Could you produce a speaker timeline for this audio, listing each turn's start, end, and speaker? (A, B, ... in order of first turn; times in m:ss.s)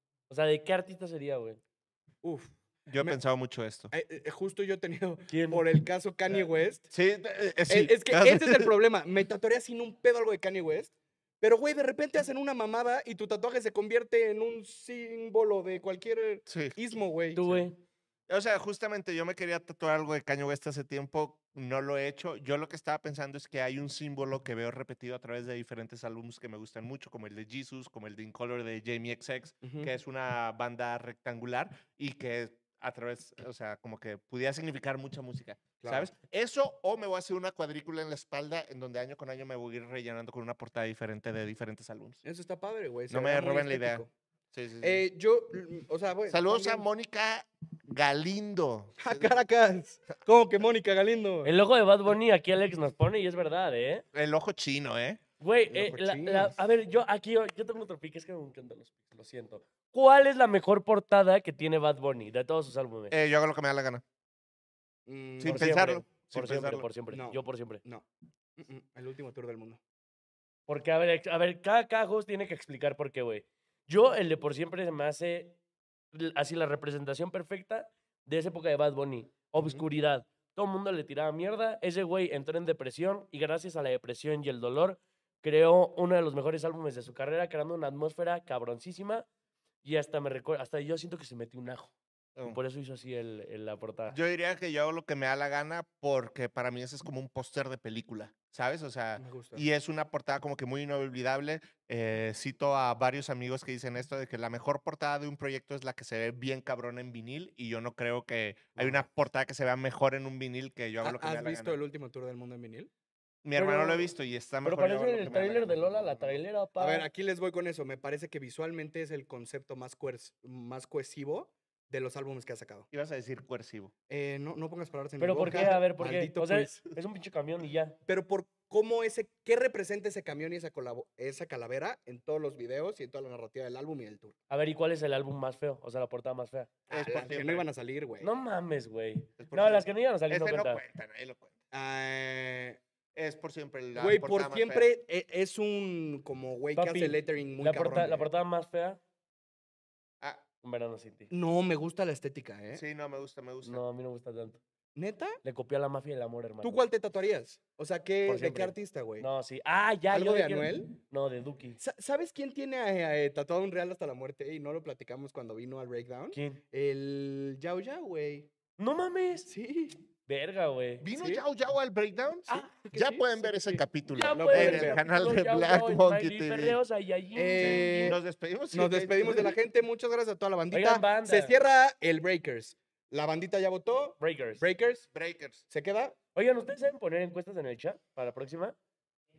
0:00.3-0:01.6 A
0:02.2-0:03.2 B
0:02.9-0:03.9 C
0:03.9-0:06.9 B
0:05.3-0:05.7 A
0:06.9-0:08.7 C
0:07.7-0:17.6 B
0:16.5-0:16.8 C
0:17.3-0:17.8 A
0:18.3-0:42.2 C
0:29.6-0:29.9 B
0:35.8-0:36.1 B
0:42.2-0:44.1 B
0:43.1-0:45.0 C
0:44.8-0:46.8 B
0:46.3-0:49.3 C
0:49.0-0:51.5 B
0:51.4-0:54.0 A
0:54.1-0:55.2 C
0:55.4-1:03.1 A
0:55.7-0:56.6 B
1:03.1-1:04.0 C
1:05.0-1:05.7 B
1:05.4-1:06.9 C
1:05.4-1:07.8 A
1:07.1-1:09.8 B
1:10.7-1:15.6 A
1:16.1-1:29.3 A
1:19.6-1:19.8 B
1:29.8-1:31.9 A
1:32.4-1:34.2 A
1:34.1-1:51.8 C
1:39.2-1:39.6 B
1:48.8-1:49.0 B
1:51.0-1:52.9 B
1:53.4-1:56.3 C
1:53.6-1:54.0 A
1:54.6-1:57.1 A
1:56.8-2:02.9 B
2:02.9-2:03.9 C
2:04.1-2:06.8 B
2:05.2-2:08.0 A
2:08.1-2:14.3 B
2:14.5-2:16.7 A
2:16.9-2:18.3 B
2:16.9-2:17.6 C
2:18.2-2:20.8 A
2:19.4-2:21.5 C
2:21.7-2:22.8 B
2:23.1-2:24.9 C
2:24.0-2:28.3 B
2:26.8-2:29.0 A
2:30.6-2:31.3 A
2:31.3-2:32.8 B
2:32.7-2:33.8 C
2:33.6-2:34.6 A
2:34.9-2:35.4 B
2:35.4-2:36.8 A
2:36.6-2:39.2 B
2:38.2-2:41.8 A
2:40.1-2:40.9 B
2:41.8-2:48.5 B
2:46.3-2:46.6 A
2:48.8-2:49.5 A
2:49.5-2:50.0 B
2:50.2-2:51.0 A
2:51.0-2:56.8 C
2:51.1-2:51.4 B
2:52.5-2:55.0 B
2:54.1-2:58.2 A
2:57.4-2:58.2 B
2:57.6-2:59.5 C
2:58.7-3:05.1 B
3:00.7-3:01.5 A
3:04.2-3:04.6 A
3:05.1-3:05.6 C
3:05.7-3:06.2 B
3:06.3-3:08.7 A